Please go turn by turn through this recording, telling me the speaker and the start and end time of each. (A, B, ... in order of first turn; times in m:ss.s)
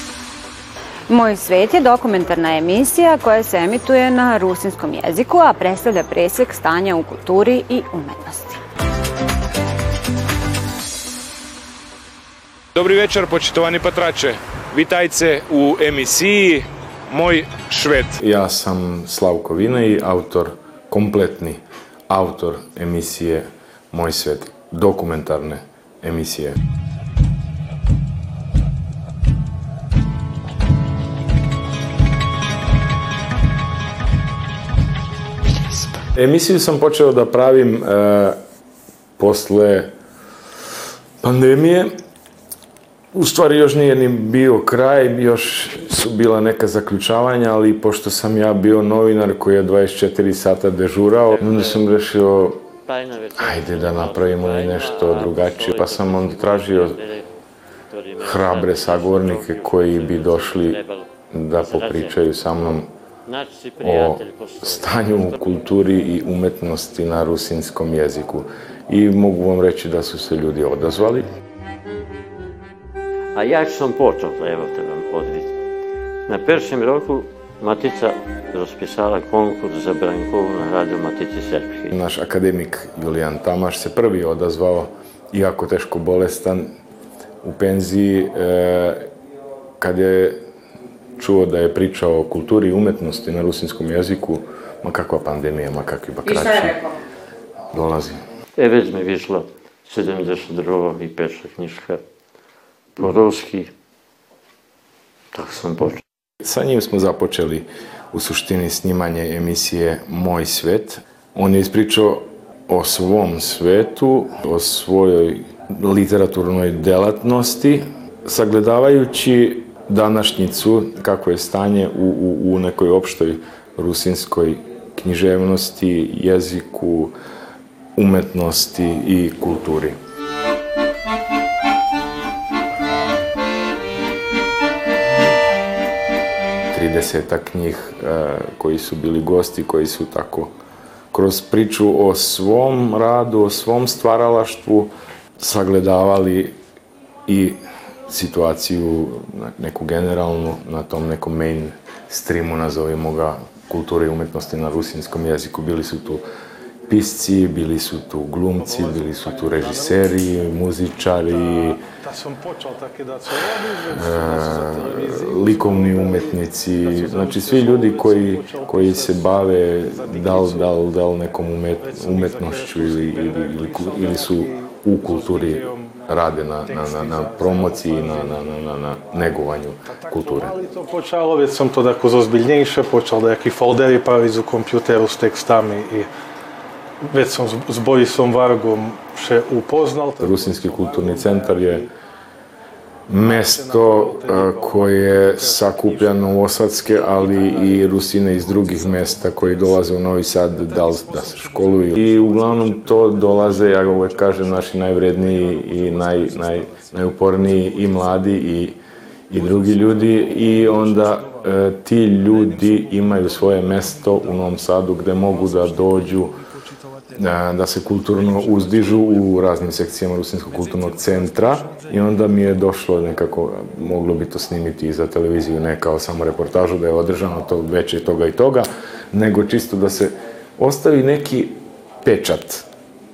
0:01.1-0:08.6 A
0:12.8-0:16.6 B
0:17.1-0:18.1 B
0:18.2-0:26.6 C
0:36.2-0:38.4 C
0:39.2-0:39.9 C
0:41.2-0:41.9 C
0:43.1-0:52.6 C
0:51.3-0:51.8 D
0:52.9-0:57.2 D
0:53.4-0:57.0 C
0:57.9-1:01.0 D
0:58.2-1:00.8 C
1:01.3-1:02.9 C
1:01.6-1:02.2 D
1:03.3-1:05.6 D
1:03.8-1:11.3 C
1:13.4-1:15.5 D
1:16.3-1:21.9 D
1:21.9-1:26.7 C
1:27.4-1:29.1 C
1:29.8-1:30.4 C
1:31.2-1:36.9 C
1:37.7-1:38.2 C
1:38.6-1:42.0 D
1:43.0-1:43.7 D
1:45.3-1:46.0 D
1:46.4-2:07.1 C
2:08.0-2:10.0 C
2:16.7-2:20.5 C
2:21.1-2:26.6 C
2:27.3-2:36.2 C
2:36.9-2:41.8 C
2:38.6-2:40.0 E
2:41.4-2:49.4 E
2:43.9-3:00.6 C
2:49.9-2:50.7 E
2:51.8-2:55.8 E
2:56.6-2:58.4 E
3:00.0-3:06.1 E
3:07.0-3:11.9 E
3:10.2-3:11.9 C
3:13.1-3:36.3 C
3:13.2-3:16.3 E
3:17.2-3:17.9 E
3:18.5-3:19.7 E
3:20.7-3:28.1 E
3:29.4-3:31.4 E
3:32.5-3:33.7 E
3:35.4-3:35.8 E
3:37.2-3:52.7 C
3:38.2-3:39.3 E
3:40.5-3:41.9 E